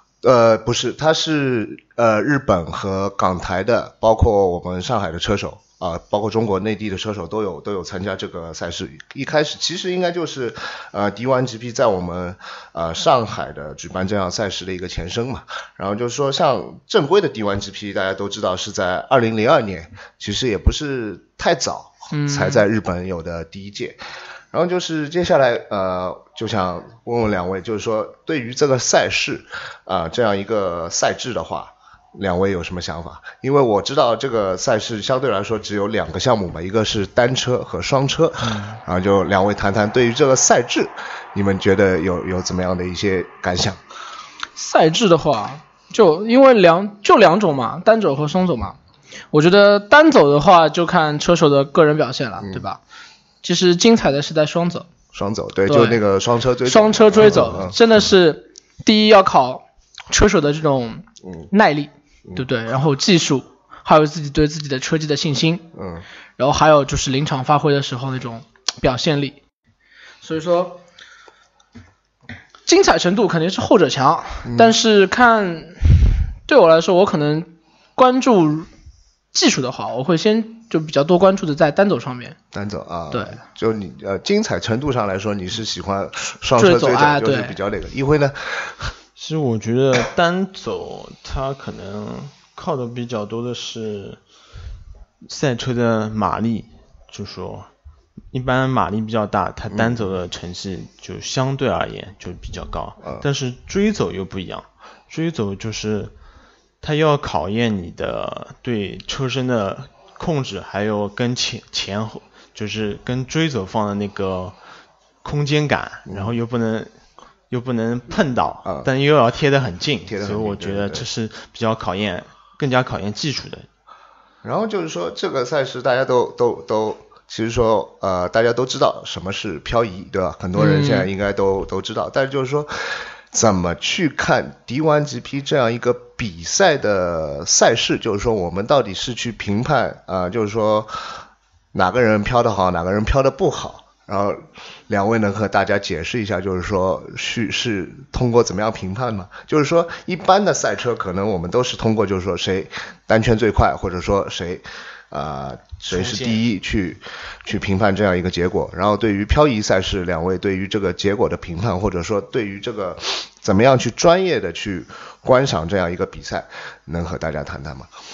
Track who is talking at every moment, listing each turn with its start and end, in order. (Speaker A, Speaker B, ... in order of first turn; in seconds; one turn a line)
Speaker A: 0.2-24.0
Speaker B: 22.1-22.6
Speaker A: 24.5-43.8
Speaker C: 38.4-38.8
Speaker B: 44.6-48.8
Speaker B: 49.3-52.8
Speaker B: 53.4-54.9
Speaker A: 55.1-57.8
Speaker B: 55.7-56.0
Speaker B: 56.7-65.7
Speaker A: 65.7-66.0
Speaker B: 66.4-69.4
Speaker B: 70.2-70.8
Speaker B: 72.7-78.7
Speaker A: 74.5-74.8
Speaker B: 79.3-82.4
Speaker A: 82.5-89.0
Speaker B: 83.1-83.4
Speaker B: 86.6-87.6
Speaker C: 89.2-94.2
Speaker C: 95.2-97.7
Speaker C: 98.3-106.1
Speaker A: 99.7-100.1
Speaker C: 106.8-114.5
Speaker C: 115.2-116.9
Speaker A: 116.1-116.4
Speaker C: 117.5-123.7
Speaker A: 118.6-118.9
Speaker A: 120.1-121.1
Speaker A: 124.4-141.2
Speaker B: 130.6-131.1
Speaker A: 141.7-167.9
Speaker C: 155.9-156.4